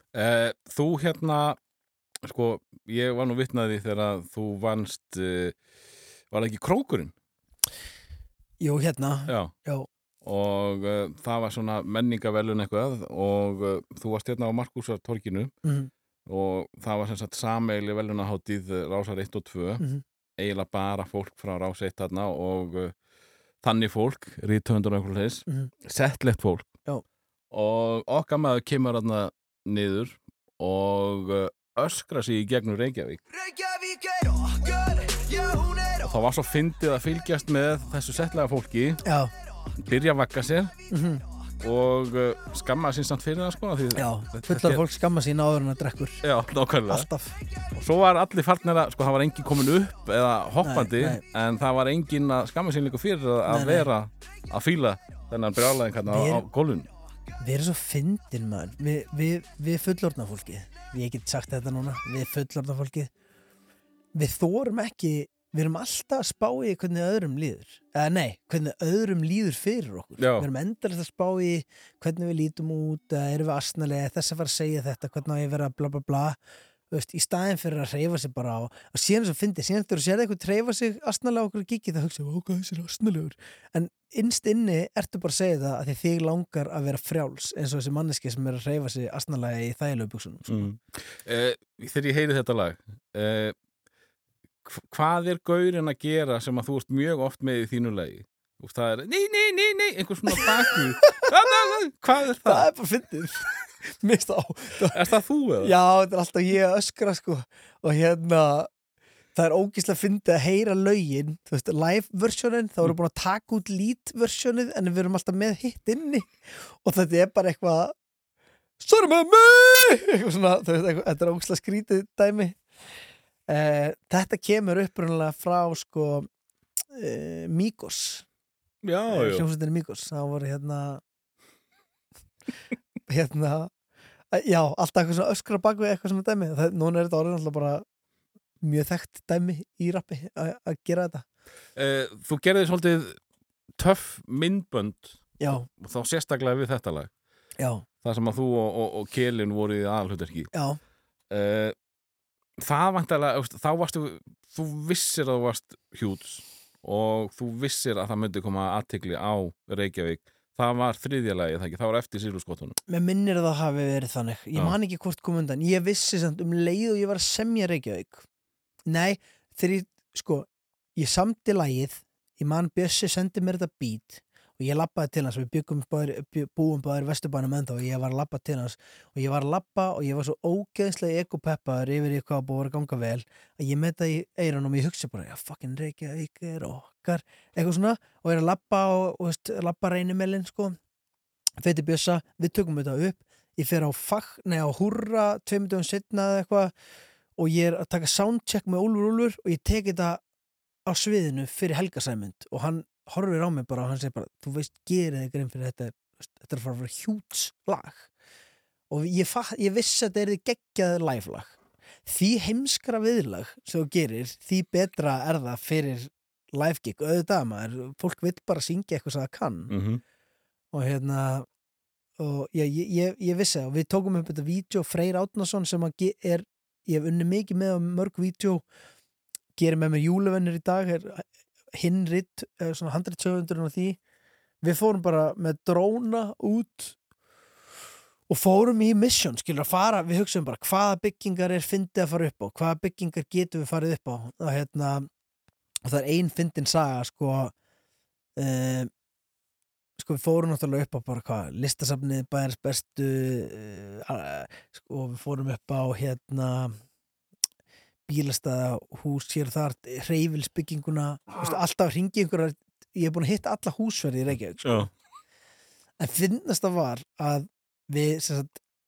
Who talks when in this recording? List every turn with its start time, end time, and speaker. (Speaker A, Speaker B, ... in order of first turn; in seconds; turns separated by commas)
Speaker A: 0.1-1.6, Speaker A: 2.2-5.6, Speaker A: 6.3-7.1, Speaker B: 8.6-9.9, Speaker A: 9.3-9.5, Speaker A: 10.2-15.5, Speaker B: 15.6-15.9, Speaker A: 16.3-19.8, Speaker A: 20.4-22.9, Speaker A: 23.6-26.7, Speaker A: 27.5-33.2, Speaker C: 33.5-36.0, Speaker A: 36.0-39.0, Speaker B: 39.0-39.3, Speaker A: 39.8-40.7, Speaker B: 40.9-41.2, Speaker A: 41.6-44.8, Speaker B: 44.0-46.2, Speaker A: 46.2-47.1, Speaker B: 46.9-47.4, Speaker A: 47.8-56.9, Speaker B: 50.6-51.2, Speaker B: 53.5-53.9, Speaker B: 56.1-56.5, Speaker B: 57.4-63.1, Speaker B: 64.2-76.4, Speaker A: 70.2-70.5, Speaker B: 76.9-90.7, Speaker A: 90.5-93.5, Speaker A: 94.7-102.7, Speaker B: 102.5-105.0, Speaker A: 104.9-105.7, Speaker B: 105.6-108.7, Speaker B: 109.3-117.9, Speaker B: 118.8-122.6, Speaker B: 123.5-126.3, Speaker B: 126.9-128.3, Speaker A: 128.8-129.5, Speaker B: 129.1-131.0, Speaker B: 133.1-133.7, Speaker B: 134.3-137.8, Speaker B: 138.6-141.2, Speaker A: 141.8-143.2, Speaker A: 143.8-147.1, Speaker B: 145.4-145.7, Speaker B: 147.6-147.8, Speaker A: 148.0-150.5, Speaker B: 150.5-150.8, Speaker A: 151.3-151.8, Speaker A: 152.6-162.8, Speaker B: 162.9-168.2, Speaker B: 168.9-190.8, Speaker B: 191.6-196.7, Speaker B: 197.4-200.2, Speaker B: 200.9-208.1, Speaker B: 208.9-211.6, Speaker B: 212.1-219.7, Speaker A: 219.7-220.0, Speaker B: 220.7-221.5, Speaker B: 222.2-228.6, Speaker B: 229.6-234.0, Speaker B: 234.6-237.0, Speaker B: 238.3-245.1, Speaker B: 245.8-247.5, Speaker B: 248.4-248.9, Speaker B: 250.0-256.8, Speaker B: 258.1-264.9, Speaker A: 264.6-264.9, Speaker B: 266.0-268.6